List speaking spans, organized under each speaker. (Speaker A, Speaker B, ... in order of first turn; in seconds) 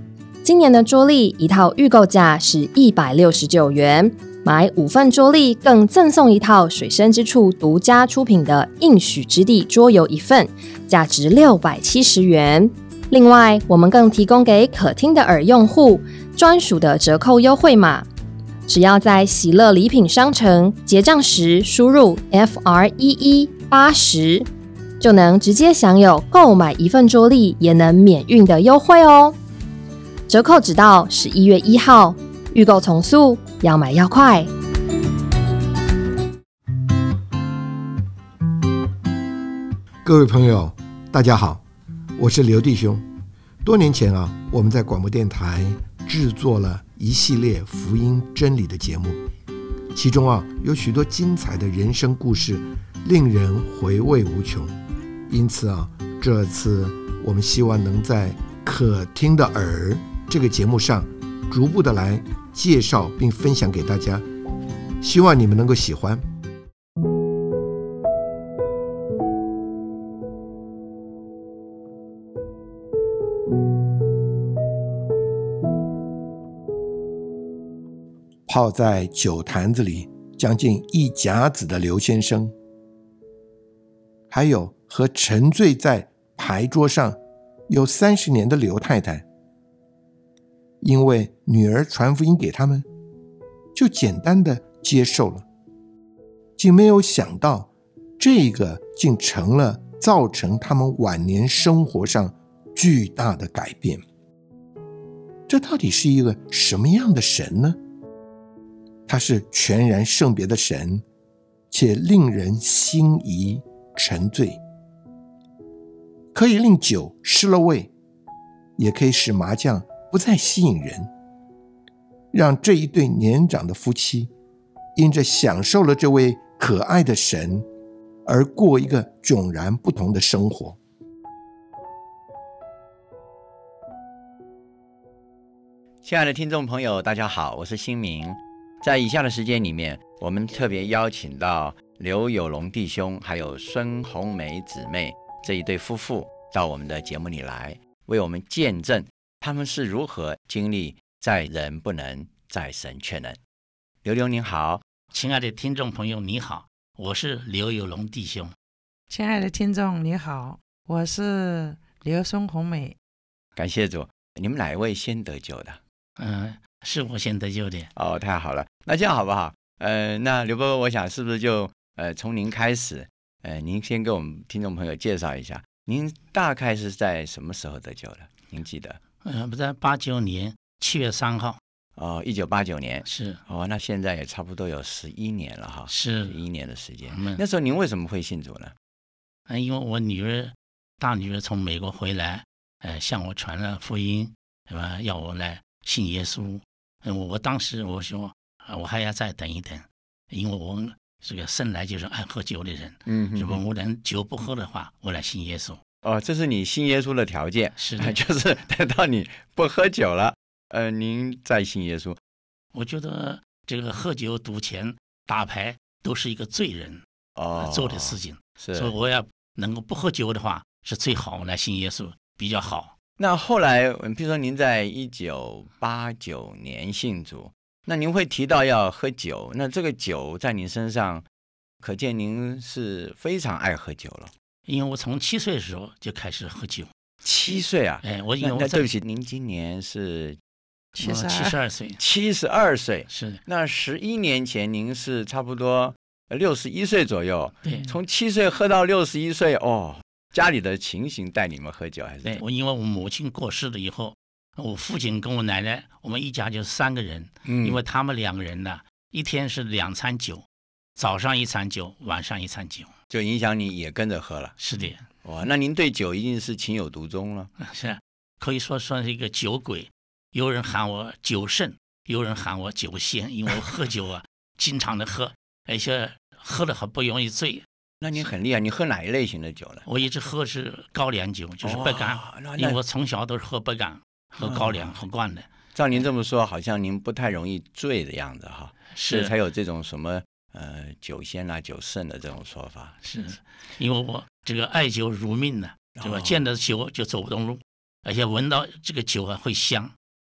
Speaker A: 0.4-18.1, 18.7-24.5, 25.0-29.3, 30.3-34.5
Speaker B: 40.0-41.6, 42.2-43.0, 43.6-49.2, 49.9-54.7, 55.3-64.2, 65.0-66.2, 78.5-82.5, 84.3-89.2, 90.8-92.8, 93.7-95.4, 96.6-104.0, 105.5-107.8, 109.1-111.0, 111.7-114.6, 116.3-117.9, 118.8-121.1, 122.3-124.3, 125.0-127.7, 128.2-130.8
Speaker C: 136.0-153.4, 154.0-154.8, 163.6-165.8, 167.9-179.0, 181.9-188.7, 203.1-203.6, 206.0-212.2, 217.3-218.9, 223.2-231.2, 231.8-234.3, 237.2-240.4, 242.0-252.4, 257.4-257.8, 263.1-264.5, 265.2-267.5, 278.0-279.8, 281.6-282.8, 284.4-284.9, 285.7-293.0, 295.9-296.4
Speaker D: 155.1-158.5, 166.2-167.9, 179.2-181.6, 183.0-183.4, 185.9-186.4, 187.1-187.4, 189.5-205.8, 207.8-208.2, 212.7-217.0, 217.6-222.9, 234.7-236.9, 238.0-238.9, 241.0-242.0, 243.1-243.4, 247.6-247.9, 252.2-260.4, 261.0-262.9, 264.6-265.0, 267.6-277.6, 279.8-285.5, 288.9-289.3, 293.0-299.9
Speaker E: 159.1-162.9, 240.9-241.6